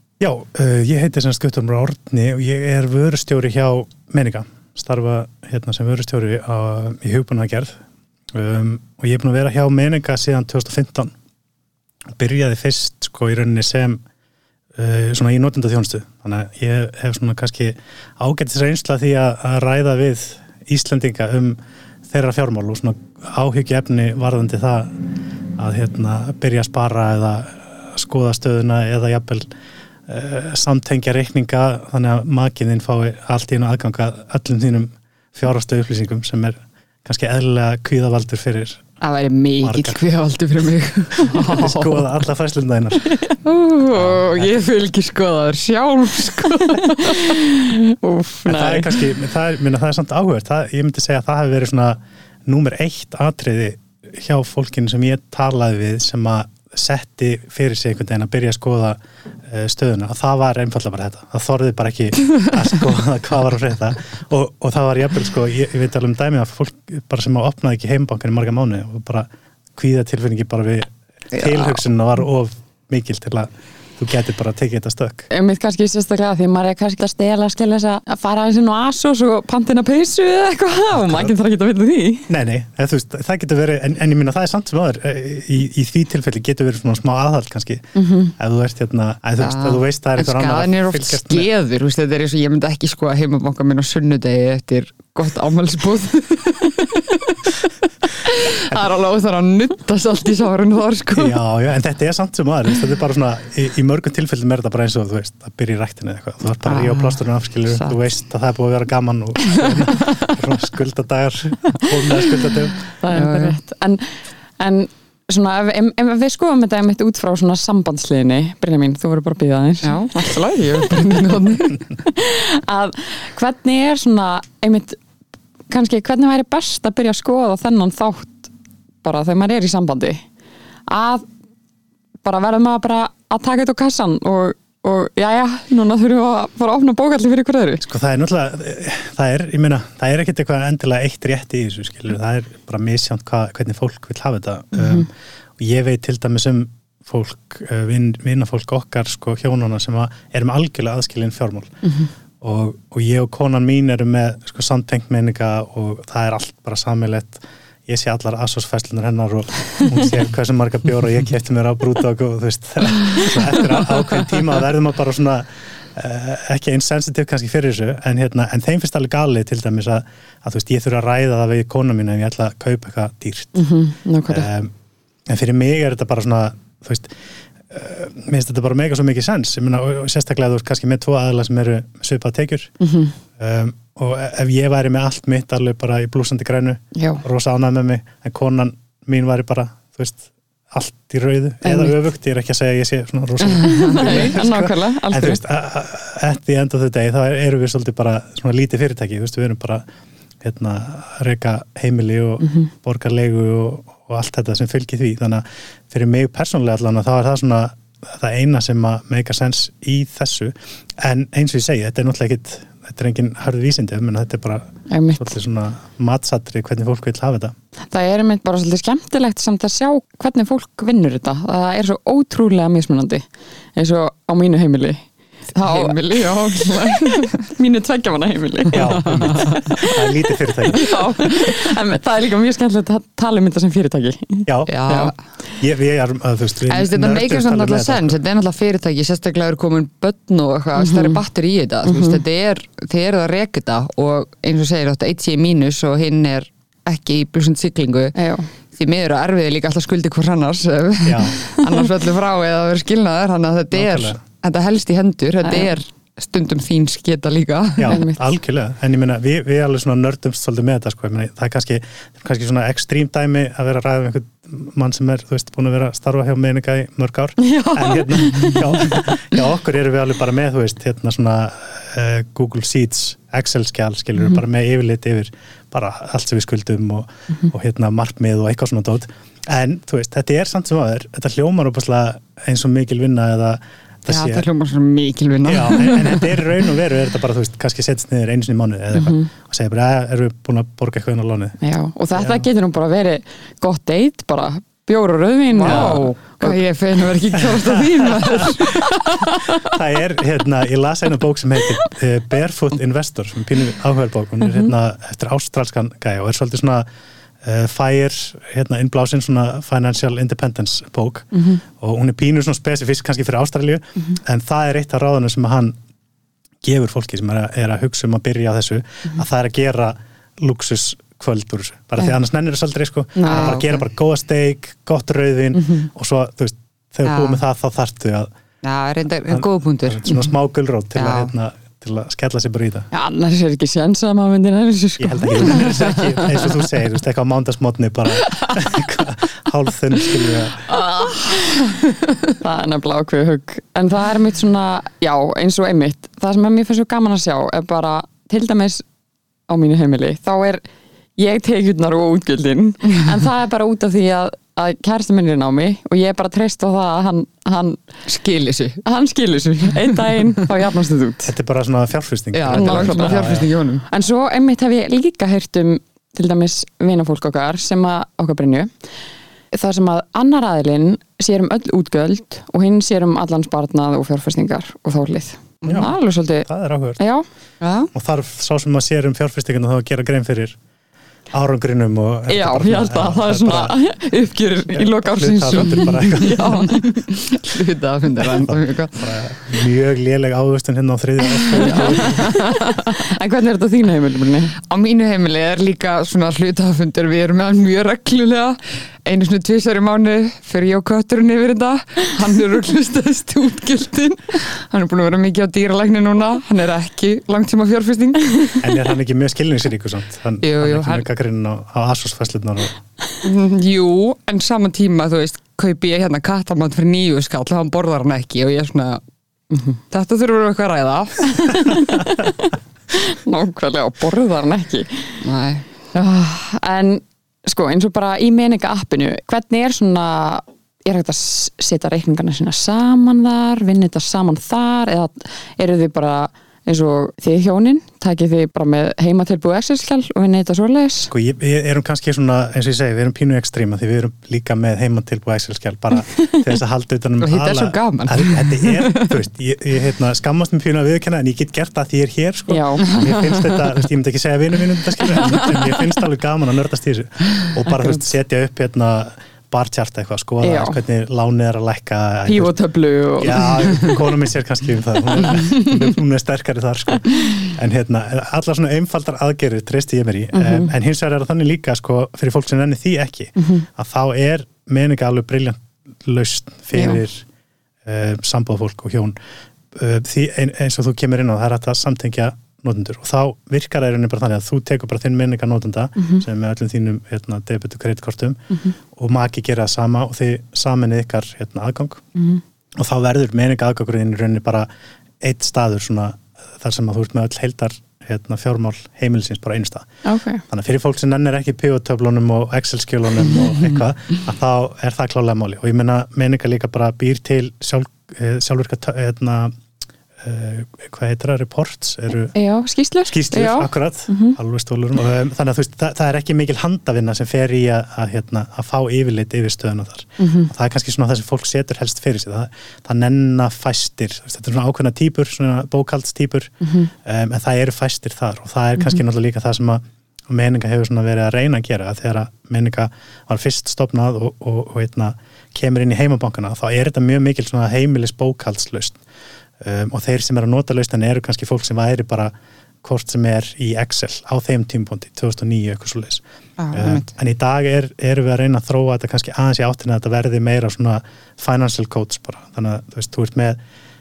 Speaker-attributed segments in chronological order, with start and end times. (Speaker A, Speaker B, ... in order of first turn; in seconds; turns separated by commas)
Speaker A: 0.2-7.8, Speaker A: 8.3-11.1, Speaker A: 12.2-14.0, Speaker A: 14.8-21.6, Speaker A: 22.1-25.0, Speaker A: 25.6-29.5, Speaker A: 30.1-38.8, Speaker B: 39.0-42.1, Speaker A: 39.6-40.0, Speaker A: 41.2-43.2, Speaker B: 43.4-47.4, Speaker A: 43.9-44.6, Speaker C: 46.9-48.9, Speaker A: 48.5-75.3, Speaker B: 71.3-71.7, Speaker C: 75.3-82.3, Speaker A: 80.9-81.3, Speaker A: 82.3-91.5, Speaker C: 88.0-88.3, Speaker B: 89.4-97.6, Speaker B: 98.2-101.4, Speaker A: 101.2-112.8, Speaker B: 106.7-108.0, Speaker C: 113.0-114.1, Speaker B: 113.1-113.6, Speaker C: 114.6-120.1, Speaker B: 119.8-121.8, Speaker C: 122.0-125.0, Speaker C: 125.7-128.5, Speaker C: 129.0-130.2, Speaker C: 130.9-131.3, Speaker C: 132.2-137.8, Speaker A: 137.8-151.7, Speaker C: 144.7-145.1, Speaker C: 151.8-152.1, Speaker A: 152.4-173.6, Speaker C: 173.6-174.5, Speaker A: 174.3-174.7, Speaker A: 175.3-177.2, Speaker A: 177.7-182.7, Speaker C: 182.8-183.2, Speaker A: 183.4-199.8, Speaker C: 186.9-187.2, Speaker C: 191.6-192.0, Speaker B: 193.5-194.3, Speaker C: 193.6-195.4, Speaker A: 200.4-217.6, Speaker C: 202.4-202.7, Speaker C: 214.9-215.3, Speaker C: 217.9-230.1, Speaker B: 225.6-227.4, Speaker A: 228.7-230.9, Speaker B: 228.8-229.5, Speaker C: 230.8-234.5, Speaker A: 234.5-238.2, Speaker B: 234.7-235.2, Speaker B: 236.7-248.2, Speaker C: 240.8-241.2, Speaker C: 241.8-242.2, Speaker C: 248.2-248.5, Speaker B: 248.8-258.0, Speaker A: 251.1-251.4, Speaker A: 253.7-254.2, Speaker C: 255.4-255.7, Speaker A: 257.8-284.5, Speaker C: 257.9-258.3, Speaker C: 267.4-269.2, Speaker B: 284.1-286.4, Speaker A: 285.4-291.6, Speaker C: 288.9-289.3, Speaker C: 291.6-296.6, Speaker A: 292.1-292.5, Speaker B: 295.5-299.5, Speaker A: 295.6-296.1, Speaker A: 297.3-298.7, Speaker A: 299.3-306.9, Speaker C: 304.4-304.7, Speaker A: 307.4-315.8, Speaker C: 311.3-311.6, Speaker A: 316.6-328.3, Speaker C: 323.2-323.6, Speaker B: 323.3-323.8, Speaker C: 325.6-325.9, Speaker B: 327.1-327.4, Speaker B: 328.6-330.2, Speaker A: 329.3-332.9, Speaker B: 331.0-331.3, Speaker C: 332.9-336.4, Speaker A: 335.0-340.7, Speaker C: 340.7-348.9, Speaker C: 349.5-350.6, Speaker C: 351.2-357.8, Speaker B: 358.1-358.8, Speaker C: 358.9-361.3, Speaker A: 361.3-363.5, Speaker B: 362.3-363.9, Speaker C: 362.5-363.3, Speaker C: 363.9-368.7, Speaker C: 369.5-377.2, Speaker A: 375.6-377.0, Speaker B: 377.6-377.9, Speaker A: 377.9-380.6, Speaker A: 381.3-383.8, Speaker C: 382.3-387.0, Speaker A: 384.8-386.7, Speaker B: 385.5-389.0, Speaker A: 388.2-392.3, Speaker C: 391.5-394.6, Speaker B: 394.6-408.6, Speaker A: 408.6-412.8, Speaker B: 410.4-411.1, Speaker B: 413.2-419.0, Speaker C: 419.5-419.8, Speaker B: 419.9-421.5, Speaker C: 421.3-425.2, Speaker B: 425.2-425.7, Speaker C: 425.9-441.1, Speaker A: 441.1-462.5, Speaker B: 447.2-449.1, Speaker C: 452.5-452.9, Speaker B: 452.9-453.7, Speaker C: 457.7-458.0, Speaker C: 460.4-460.8, Speaker C: 462.3-463.9, Speaker A: 463.2-477.2, Speaker B: 465.3-465.6, Speaker C: 470.3-470.7, Speaker C: 473.4-473.7, Speaker C: 476.7-477.0, Speaker A: 477.9-479.1, Speaker A: 479.7-492.0, Speaker C: 486.0-486.2, Speaker C: 492.1-492.4, Speaker A: 492.8-494.7, Speaker A: 495.2-499.9, Speaker C: 500.1-500.4, Speaker A: 500.5-509.6, Speaker B: 503.5-503.7, Speaker A: 510.2-512.4, Speaker C: 512.4-514.4, Speaker A: 513.1-539.0, Speaker C: 520.2-520.5, Speaker C: 526.6-526.9, Speaker A: 539.6-553.6, Speaker B: 546.6-547.1